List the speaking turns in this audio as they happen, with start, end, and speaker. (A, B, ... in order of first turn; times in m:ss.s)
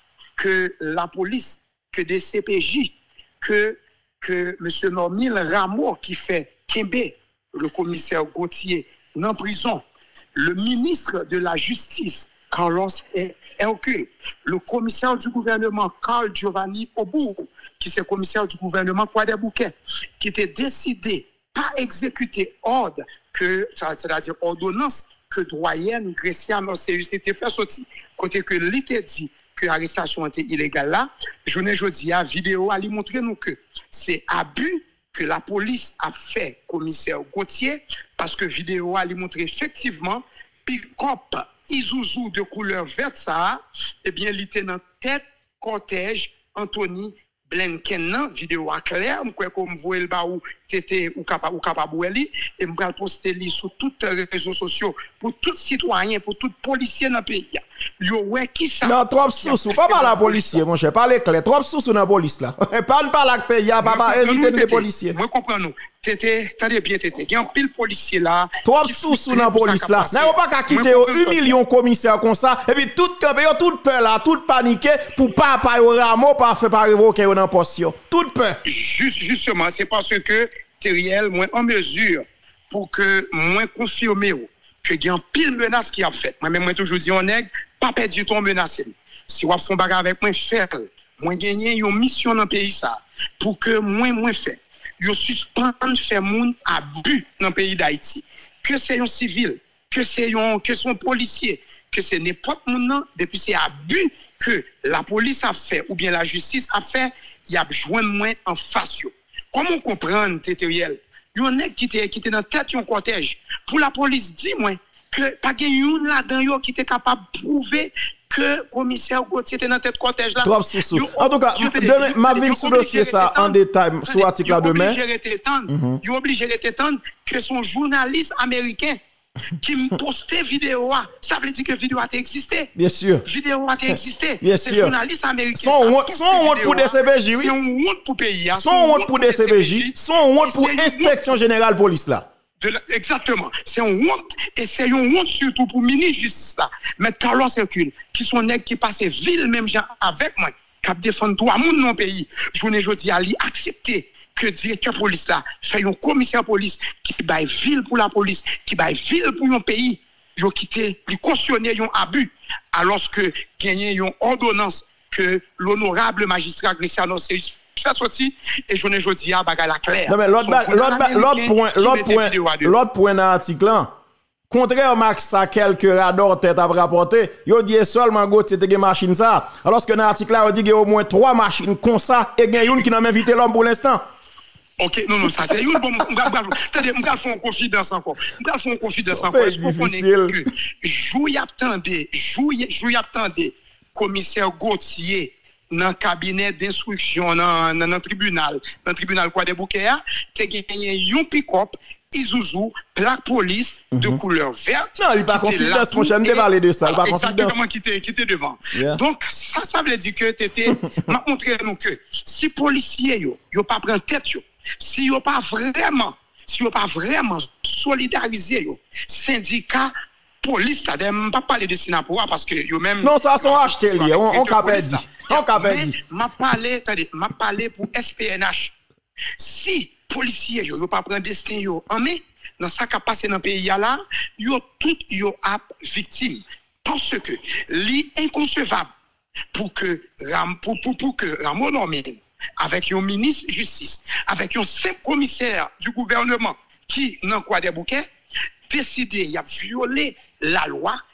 0:00.4-1:00.6 A
0:58.8-1:05.2 B
1:03.8-1:11.6 A
1:08.6-1:18.6 B
1:18.6-2:09.0 A
2:00.4-2:05.0 B
2:05.7-2:06.0 B
2:09.5-2:12.7 A
2:12.8-2:13.2 B
2:13.2-2:21.3 A
2:14.4-2:14.9 B
2:15.6-2:17.5 B
2:18.5-2:22.3 B
2:22.6-2:52.8 A
2:50.1-2:53.9 B
2:54.5-3:04.0 B
3:04.8-3:48.8 A
3:09.0-3:10.4 B
3:23.9-3:24.2 B
3:25.0-3:27.6 B
3:28.8-3:29.0 B
3:43.0-3:46.0 B
3:49.4-3:58.9 A
3:59.5-4:08.1 A
4:08.7-4:11.0 A